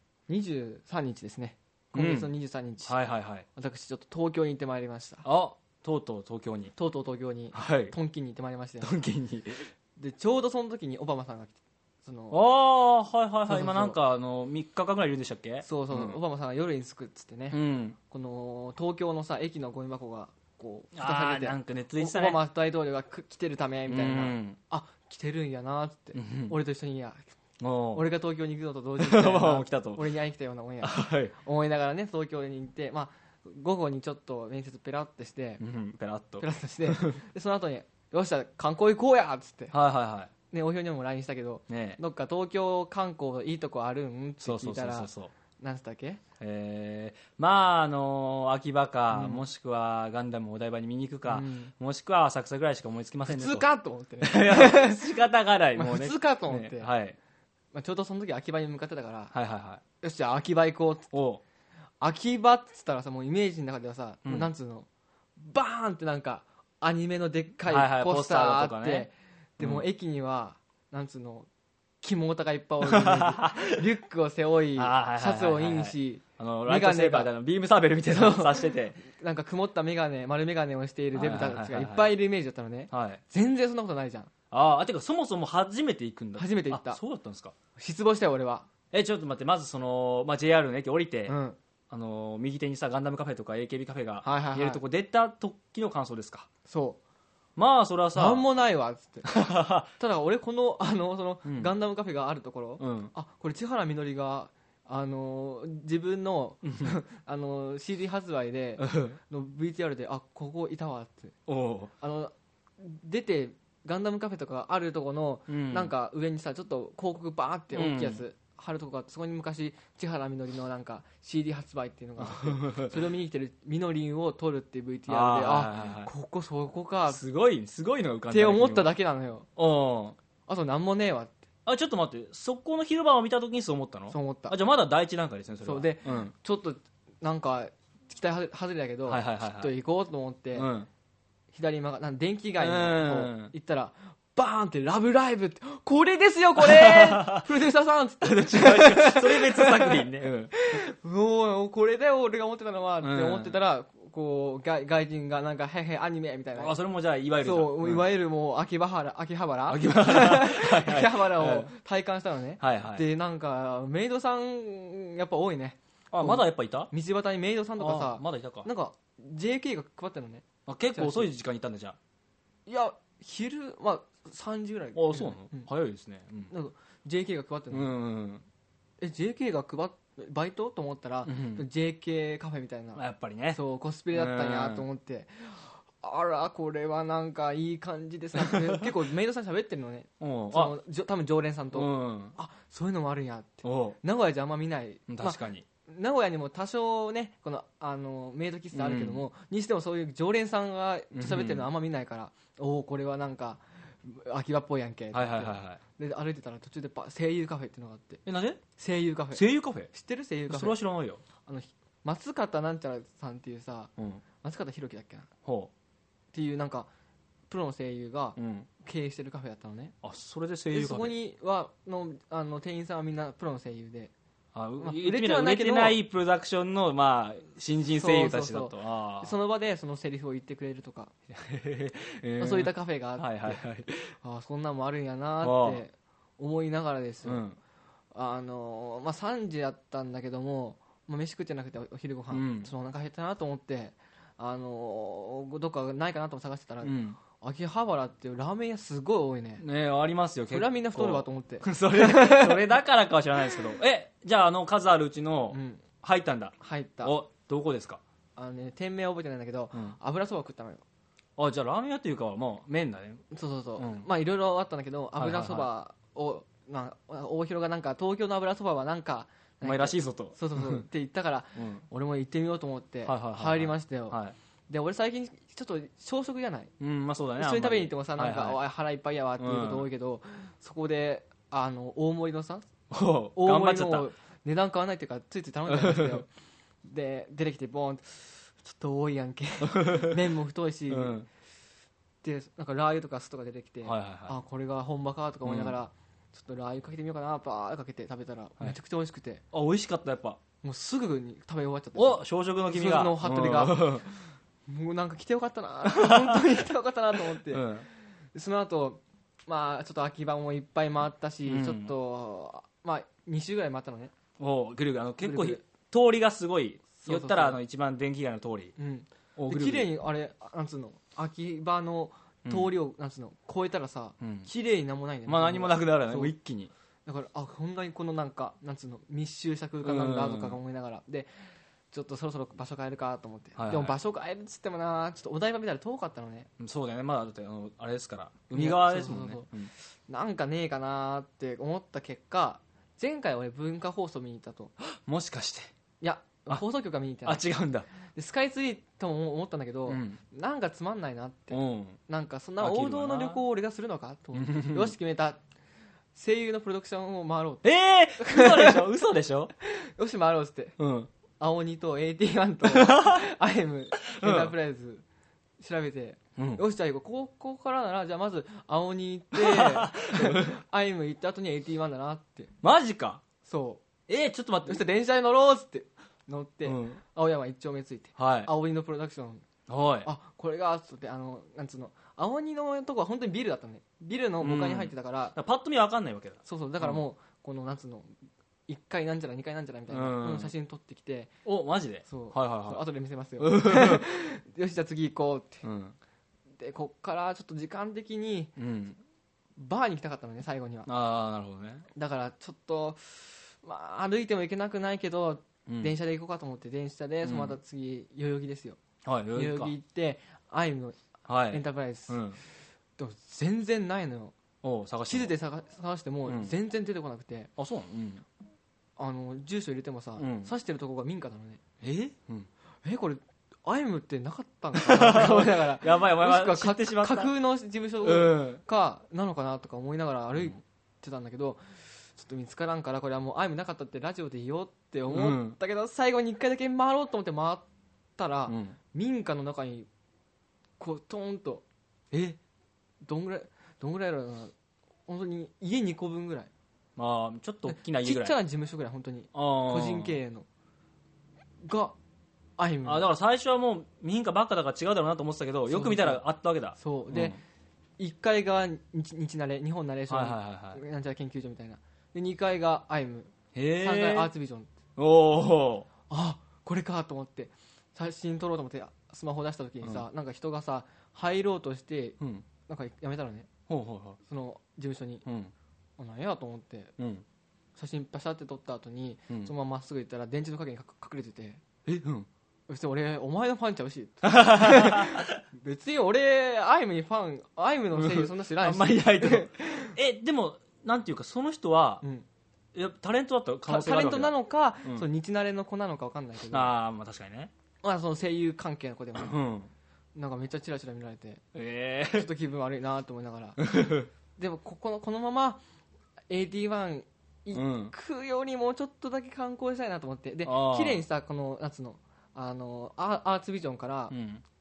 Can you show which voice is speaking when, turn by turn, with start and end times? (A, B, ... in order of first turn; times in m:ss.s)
0:00.3-0:02.9 A
0:01.9-0:02.3 B
0:02.8-0:03.4 B
0:03.5-0:05.2 A
0:05.2-0:06.7 B
0:06.8-0:08.9 A
0:07.5-0:07.9 B
0:08.8-0:09.7 B
0:10.0-0:12.4 A
0:12.3-0:16.2 B
0:13.5-0:14.0 A
0:15.6-0:27.2 A
0:17.5-0:18.0 B
0:20.9-0:22.4 B
0:23.9-0:24.6 B
0:26.1-0:26.6 B
0:27.6-0:28.0 B
0:27.9-0:35.6 A
0:29.0-0:30.0 B
0:30.8-0:31.3 B
0:35.6-0:37.2 B
0:36.4-0:39.7 A
0:39.7-0:40.3 B
0:40.5-0:46.2 A
0:41.7-0:42.0 B
0:44.4-0:45.3 B
0:46.4-0:53.7 B
0:49.1-0:49.4 A
0:51.3-0:51.7 A
0:53.2-0:55.1 A
0:54.2-0:57.2 B
0:55.7-0:56.9 A
0:57.7-0:59.3 A
0:59.3-0:59.8 B
1:00.0-1:01.1 A
1:01.1-1:01.4 B
1:02.0-1:04.9 A
1:04.2-1:04.5 B
1:05.4-1:11.5 A
1:07.7-1:09.1 B
1:09.6-1:09.8 B
1:12.0-1:17.3 A
1:12.8-1:13.8 B
1:14.8-1:19.0 B
1:18.1-1:24.3 A
1:21.1-1:22.1 B
1:22.9-1:23.2 B
1:24.5-1:27.5 B
1:26.4-1:27.0 A
1:27.8-1:28.7 A
1:28.9-1:31.4 B
1:31.3-1:31.6 A
1:31.9-1:36.5 B
1:34.2-1:34.8 A
1:36.6-1:37.0 A
1:37.6-1:38.4 B
1:38.1-1:39.3 A
1:39.2-1:39.9 B
1:40.0-1:51.4 A
1:41.4-1:41.7 B
1:42.8-1:43.1 B
1:46.6-1:47.0 B
1:48.8-1:49.2 B
1:51.5-1:51.9 B
1:52.0-2:07.2 A
1:55.5-1:55.9 B
1:57.7-1:58.2 B
2:02.2-2:02.9 B
2:05.1-2:06.1 B
2:07.1-2:08.9 B
2:08.3-2:09.5 A
2:09.6-2:10.2 B
2:10.5-2:11.4 A
2:11.6-2:16.3 B
2:14.1-2:14.6 A
2:15.6-2:20.7 A
2:19.1-2:19.7 B
2:20.5-2:20.9 B
2:21.5-2:36.7 A
2:22.6-2:23.5 B
2:26.6-2:27.5 B
2:28.2-2:30.5 B
2:33.0-2:33.6 B
2:36.6-2:38.0 B
2:37.4-2:51.3 A
2:39.7-2:41.7 B
2:42.6-2:43.0 B
2:46.1-2:46.9 B
2:47.8-2:48.7 B
2:50.6-2:52.0 B
2:52.6-2:55.7 A
2:54.9-2:56.5 B
2:56.5-2:57.9 A
2:57.7-2:58.4 B
2:59.0-3:28.2 A
3:01.2-3:01.6 B
3:02.9-3:03.6 B
3:04.1-3:04.8 B
3:08.4-3:08.9 B
3:10.2-3:10.7 B
3:11.7-3:12.3 B
3:13.6-3:14.0 B
3:15.1-3:15.6 B
3:18.7-3:19.2 B
3:21.1-3:21.7 B
3:25.1-3:25.8 B
3:28.2-3:28.6 B
3:28.8-3:30.8 A
3:29.3-3:29.9 B
3:30.5-3:31.2 B
3:31.4-3:35.3 A
3:34.0-3:34.2 B
3:35.4-3:35.7 B
3:36.3-3:36.9 A
3:37.5-3:39.9 A
3:38.4-3:38.7 B
3:40.0-3:41.1 B
3:40.7-3:44.1 A
3:44.5-3:49.3 B
3:44.8-3:46.0 A
3:47.9-3:51.1 A
3:51.3-3:54.1 B
3:52.4-3:53.6 A
3:54.2-3:57.4 A
3:55.4-3:55.8 B
3:57.2-3:57.6 B
3:58.1-4:09.6 A
4:02.3-4:02.7 B
4:06.8-4:07.2 B
4:09.6-4:18.0 B
4:10.5-4:12.8 A
4:15.5-4:15.8 A
4:16.6-4:17.2 A
4:18.4-4:20.8 A
4:21.4-4:23.2 B
4:23.3-4:36.7 A
4:23.8-4:24.1 B
4:25.2-4:25.7 B
4:29.6-4:30.8 B
4:31.6-4:31.8 B
4:33.0-4:34.4 B
4:36.8-4:38.6 B
4:37.4-4:42.7 A
4:39.4-4:39.9 B
4:42.9-4:44.1 B
4:43.4-4:46.3 A
4:45.7-4:46.2 B
4:46.8-4:51.2 A
4:49.6-4:50.2 B
4:50.9-4:51.3 B
4:52.2-4:59.4 A
4:53.8-4:54.4 B
4:55.4-4:55.8 B
4:59.5-5:00.4 B
5:00.6-5:14.1 A
5:01.9-5:04.1 B
5:05.8-5:06.4 B
5:07.3-5:07.9 B
5:11.4-5:11.9 B
5:14.4-5:18.7 B
5:15.2-5:15.6 A
5:17.0-5:17.6 A
5:18.8-5:26.3 A
5:19.4-5:19.9 B
5:22.4-5:22.7 B
5:24.2-5:24.5 B
5:25.2-5:26.7 B
5:27.0-5:36.5 A
5:29.8-5:30.6 B
5:33.6-5:34.0 B
5:36.6-5:39.7 B
5:38.5-5:44.7 A
5:44.8-5:45.7 B
5:46.0-5:47.4 A
5:47.2-5:47.9 B
5:48.1-5:55.4 A
5:49.9-5:50.2 B
5:51.5-5:52.0 B
5:52.6-5:53.4 B
5:54.3-5:54.9 B
5:56.1-5:57.6 A
5:57.6-5:59.5 B
5:58.2-5:58.8 A
5:59.6-6:00.8 A
6:00.8-6:01.1 B
6:01.4-6:05.0 A
6:02.6-6:03.2 B
6:04.1-6:04.5 B
6:05.6-6:12.5 A
6:06.4-6:06.6 B
6:09.3-6:10.6 B
6:12.6-6:13.2 B
6:13.4-6:13.8 A
6:14.1-6:14.8 B
6:14.6-6:19.4 A
6:16.6-6:17.0 B
6:18.2-6:18.5 B
6:19.7-6:20.1 B
6:20.0-6:25.4 A
6:24.4-6:27.0 B
6:26.4-6:28.1 A
6:28.7-6:31.3 A
6:29.9-6:30.5 B
6:31.4-6:32.8 B
6:32.0-6:35.6 A
6:33.4-6:34.0 B
6:35.6-6:36.0 B
6:36.6-6:38.5 A
6:38.6-6:39.0 B
6:39.6-6:40.9 A
6:40.8-6:41.8 B
6:41.9-6:48.8 A
6:45.6-6:45.9 B
6:47.2-6:47.6 B
6:49.0-6:49.7 B
6:49.3-6:52.2 A
6:51.3-6:52.4 B
6:53.0-6:54.3 A
6:54.6-6:55.3 B
6:55.1-6:57.5 A
6:56.3-6:56.5 B
6:57.6-6:58.2 B
6:59.0-7:01.6 A
7:00.2-7:00.5 B
7:01.8-7:02.5 B
7:02.8-7:17.6 A
7:04.7-7:07.3 B
7:08.0-7:08.6 B
7:15.1-7:15.6 B
7:18.2-7:19.9 A
7:18.5-7:18.8 B
7:20.8-7:21.6 A
7:22.1-7:22.4 B
7:23.0-7:24.5 A
7:25.1-7:26.5 A
7:27.0-7:28.4 B
7:27.7-7:30.4 A
7:29.3-7:30.2 B
7:31.6-7:32.0 A
7:32.6-7:33.1 A
7:32.8-7:37.4 B
7:35.7-7:36.2 A
7:36.8-7:37.4 A
7:38.0-7:44.7 A
7:40.1-7:40.8 B
7:43.5-7:44.3 B
7:45.0-7:45.9 B
7:46.1-7:53.5 A
7:52.2-7:52.4 B
7:53.7-7:54.2 B
7:54.3-7:55.2 A
7:55.2-7:55.5 B
7:56.0-7:56.9 A
7:57.0-7:57.2 B
7:57.8-8:01.6 A
8:01.8-8:02.3 B
8:02.7-8:10.0 A
8:04.2-8:05.4 B
8:07.9-8:12.0 B
8:12.7-8:15.1 B
8:13.6-8:16.7 A
8:16.5-8:17.5 B
8:17.8-8:19.4 A
8:19.1-8:19.7 B
8:20.1-8:21.4 A
8:21.5-8:22.3 B
8:22.1-8:23.6 A
8:23.6-8:24.1 B
8:24.4-8:25.6 A
8:26.3-8:34.1 A
8:27.5-8:27.9 B
8:30.4-8:31.0 B
8:34.1-8:34.4 B